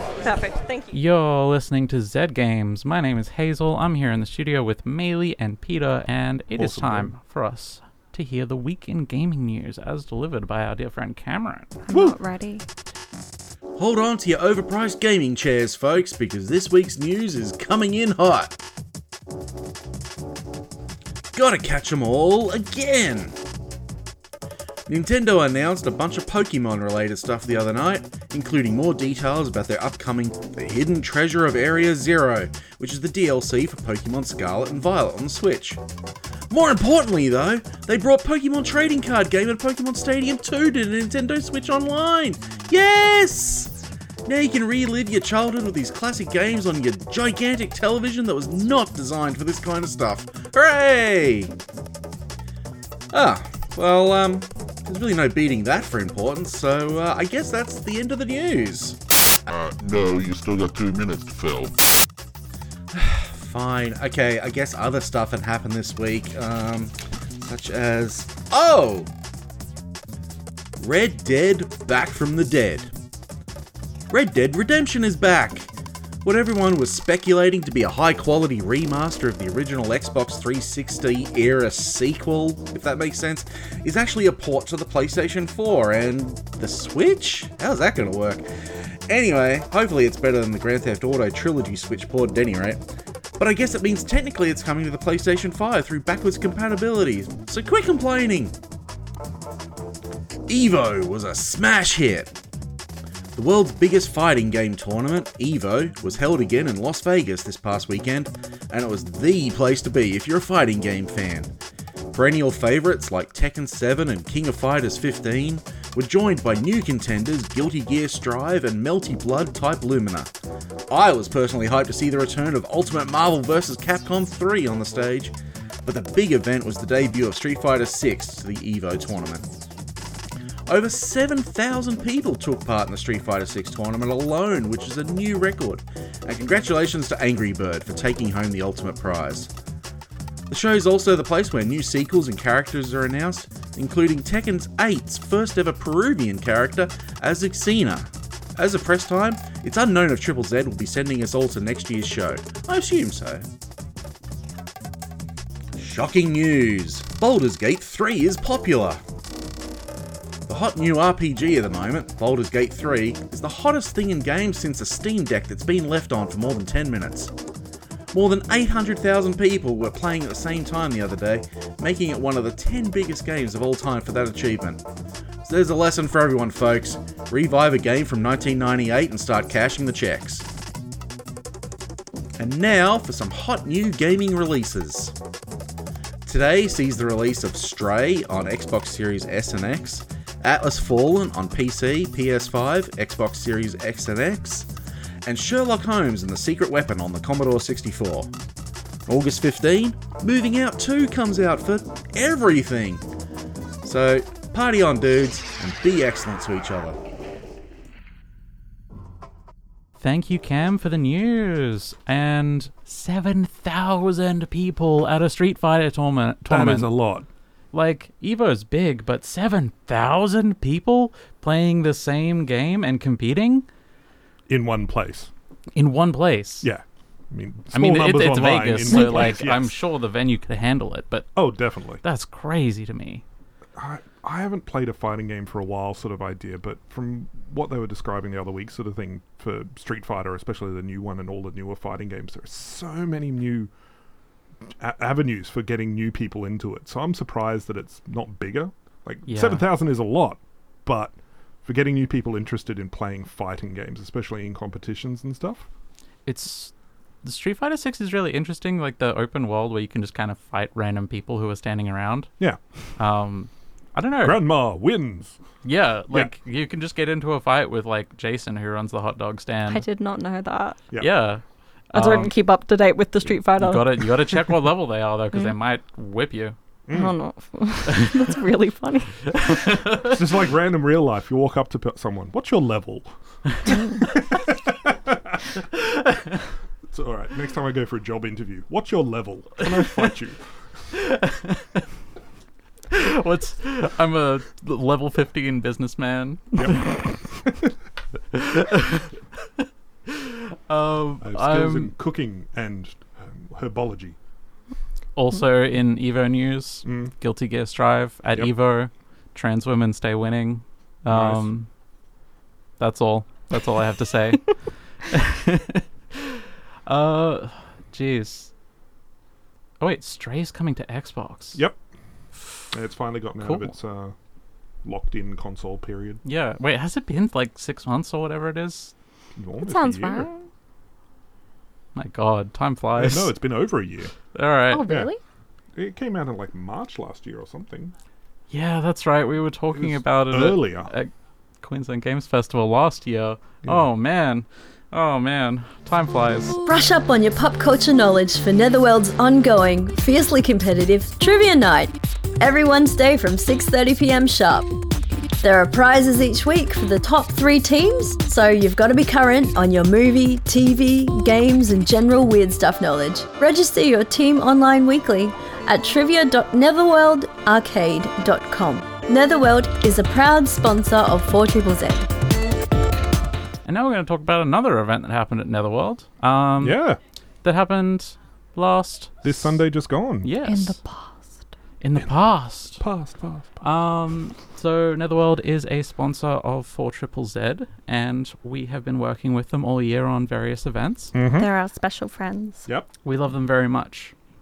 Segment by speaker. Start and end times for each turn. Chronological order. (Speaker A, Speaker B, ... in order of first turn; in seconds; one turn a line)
Speaker A: 0.3-0.8
Speaker B: 0.9-11.7
Speaker C: 6.5-7.1
Speaker A: 11.9-12.7
Speaker C: 11.9-12.2
Speaker D: 13.8-18.6
Speaker D: 21.3-23.4
Speaker D: 24.9-35.8
Speaker D: 36.5-51.5
Speaker D: 53.1-59.0
Speaker E: 59.5-61.8
Speaker D: 62.9-69.1
Speaker D: 70.8-72.9
Speaker D: 74.1-75.7
Speaker D: 76.2-88.5
Speaker D: 89.1-92.8
Speaker D: 93.4-98.5
Speaker D: 100.5-102.3
Speaker D: 103.3-111.5
Speaker D: 112.1-120.3
Speaker D: 120.9-129.5
Speaker D: 130.7-139.5
Speaker D: 140.5-153.5
Speaker D: 155.8-159.0
Speaker D: 160.5-167.3
Speaker D: 168.1-174.8
Speaker D: 175.4-180.5
Speaker D: 182.4-185.2
Speaker D: 186.2-194.7
Speaker D: 195.2-198.3
Speaker D: 199.1-203.1
Speaker D: 203.8-207.0
Speaker B: 210.0-216.9
Speaker C: 216.5-217.3
Speaker B: 217.7-223.7
Speaker C: 224.5-225.3
Speaker B: 225.8-226.7
Speaker C: 226.6-229.7
Speaker B: 227.7-231.4
Speaker C: 231.3-232.0
Speaker B: 232.0-233.2
Speaker C: 233.8-243.7
Speaker C: 244.8-255.7
Speaker B: 249.3-249.7
Speaker B: 256.3-256.7
Speaker B: 257.2-262.3
Speaker B: 263.0-264.5
Speaker C: 264.2-265.4
Speaker B: 265.6-269.8
Speaker A: 269.7-270.8
Speaker B: 271.0-271.4
Speaker B: 271.9-272.3
Speaker A: 271.9-274.1
Speaker B: 273.6-276.6
Speaker C: 276.9-277.2
Speaker A: 276.9-279.3
Speaker B: 277.9-278.3
Speaker B: 279.3-280.1
Speaker C: 280.0-283.1
Speaker C: 284.0-285.4
Speaker C: 286.9-290.5
Speaker B: 290.9-291.8
Speaker B: 292.9-297.0
Speaker C: 296.6-297.7
Speaker B: 298.3-301.9
Speaker C: 301.2-304.2
Speaker B: 305.2-311.7
Speaker C: 306.9-307.1
Speaker C: 311.1-311.5
Speaker B: 312.8-314.5
Speaker B: 315.1-316.3
Speaker B: 316.9-318.5
Speaker B: 319.8-321.6
Speaker C: 322.7-324.1
Speaker B: 323.4-323.7
Speaker C: 324.8-326.2
Speaker B: 326.2-328.9
Speaker C: 329.4-330.3
Speaker A: 329.6-330.4
Speaker B: 331.9-333.4
Speaker C: 333.0-334.1
Speaker B: 334.3-334.9
Speaker A: 334.7-335.2
Speaker C: 335.8-337.9
Speaker B: 338.5-341.1
Speaker C: 339.8-340.9
Speaker B: 341.6-346.6
Speaker F: 346.7-354.7
Speaker F: 355.4-372.1
Speaker B: 373.6-376.8
Speaker C: 376.6-377.0
Speaker B: 377.4-379.6
Speaker C: 379.2-380.3
Speaker B: 380.2-380.8
Speaker A: 380.4-381.5
Speaker B: 381.8-382.8
Speaker C: 382.7-383.6
Speaker B: 383.6-391.1
Speaker C: 391.1-391.5
Speaker A: 391.4-392.7
Speaker B: 393.0-394.1